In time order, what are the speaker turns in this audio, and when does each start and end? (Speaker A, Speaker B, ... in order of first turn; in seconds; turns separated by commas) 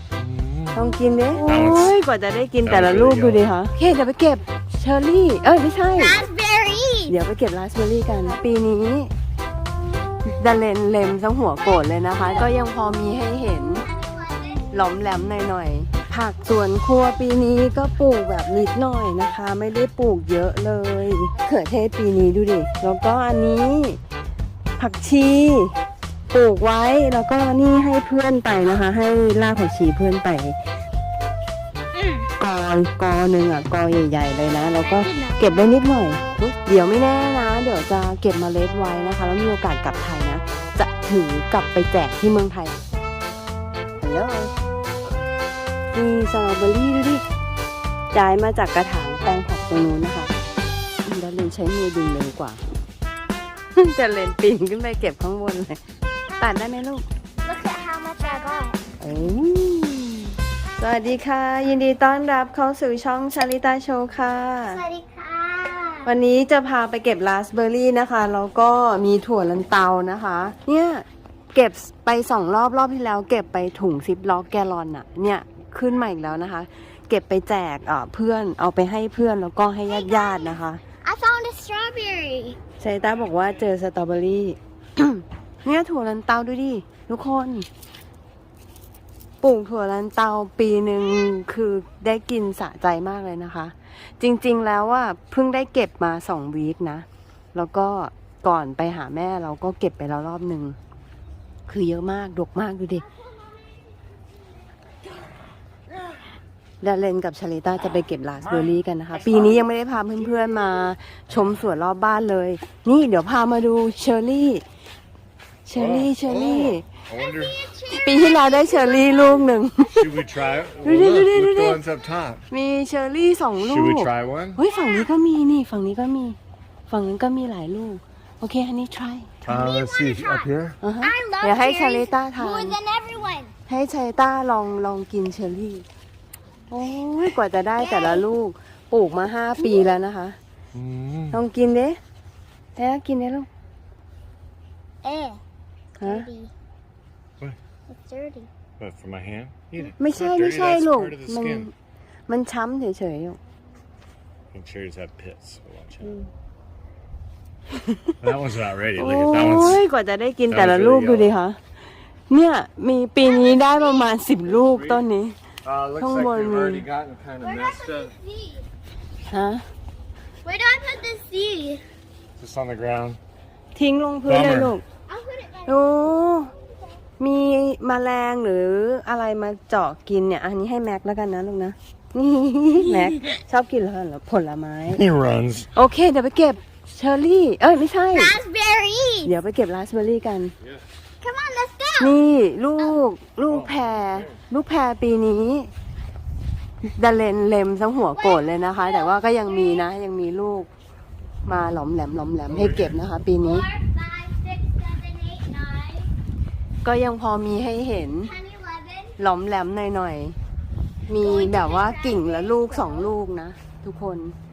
Speaker A: 0.1-0.9, Speaker B: 0.7-6.2, Speaker A: 1.4-1.9, Speaker A: 2.6-3.4, Speaker C: 5.9-7.1, Speaker B: 7.1-9.1, Speaker B: 10.3-13.9, Speaker C: 11.6-12.5, Speaker C: 13.7-14.9, Speaker B: 14.7-24.0, Speaker B: 24.8-25.8, Speaker B: 26.3-30.6, Speaker C: 31.9-32.3, Speaker B: 32.4-42.8, Speaker C: 34.8-35.5, Speaker B: 44.0-44.5, Speaker B: 45.9-47.2, Speaker B: 48.1-50.3, Speaker B: 51.0-52.6, Speaker B: 53.7-55.8, Speaker B: 56.4-57.0, Speaker C: 57.4-58.8, Speaker B: 59.0-64.8, Speaker C: 64.7-66.1, Speaker B: 66.0-80.8, Speaker C: 79.9-82.6, Speaker B: 82.8-87.7, Speaker B: 89.4-100.8, Speaker B: 101.7-103.0, Speaker B: 106.8-114.6, Speaker B: 115.7-116.9, Speaker A: 115.7-117.6, Speaker C: 117.1-120.7, Speaker B: 117.9-120.0, Speaker A: 120.0-122.5, Speaker B: 120.8-121.8, Speaker B: 122.5-126.4, Speaker A: 123.6-124.6, Speaker C: 124.6-125.1, Speaker B: 126.9-129.4, Speaker A: 129.4-130.8, Speaker C: 129.4-133.5, Speaker B: 130.8-132.8, Speaker B: 133.7-135.9, Speaker B: 136.7-140.4, Speaker C: 137.8-138.2, Speaker A: 140.7-141.4, Speaker B: 141.3-142.0, Speaker B: 142.8-143.5, Speaker C: 145.0-145.4, Speaker C: 146.0-146.5, Speaker B: 146.0-146.3, Speaker C: 147.9-148.5, Speaker A: 148.8-151.7, Speaker B: 150.0-151.7, Speaker B: 152.3-153.4, Speaker A: 154.5-156.1, Speaker B: 156.0-156.3, Speaker B: 157.8-158.2, Speaker A: 158.2-159.8, Speaker B: 158.9-161.6, Speaker A: 160.5-161.4, Speaker B: 162.3-165.4, Speaker C: 163.2-164.1, Speaker A: 164.6-165.0, Speaker A: 165.6-168.1, Speaker B: 166.0-166.9, Speaker C: 167.4-168.7, Speaker B: 169.3-169.7, Speaker C: 170.4-171.8, Speaker A: 172.4-173.2, Speaker B: 173.8-174.8, Speaker A: 174.3-174.8, Speaker C: 175.1-175.8, Speaker B: 175.7-176.5, Speaker B: 177.2-185.1, Speaker A: 185.0-185.7, Speaker B: 185.7-188.4, Speaker C: 188.1-189.3, Speaker B: 189.2-190.5, Speaker C: 191.2-192.2, Speaker B: 192.0-195.7, Speaker A: 193.5-193.8, Speaker B: 196.8-200.7, Speaker C: 198.2-199.8, Speaker B: 201.4-203.7, Speaker A: 202.5-202.9, Speaker C: 203.4-206.1, Speaker B: 206.8-208.3, Speaker C: 208.2-209.2, Speaker B: 209.2-210.4, Speaker B: 211.1-214.4, Speaker C: 211.2-213.1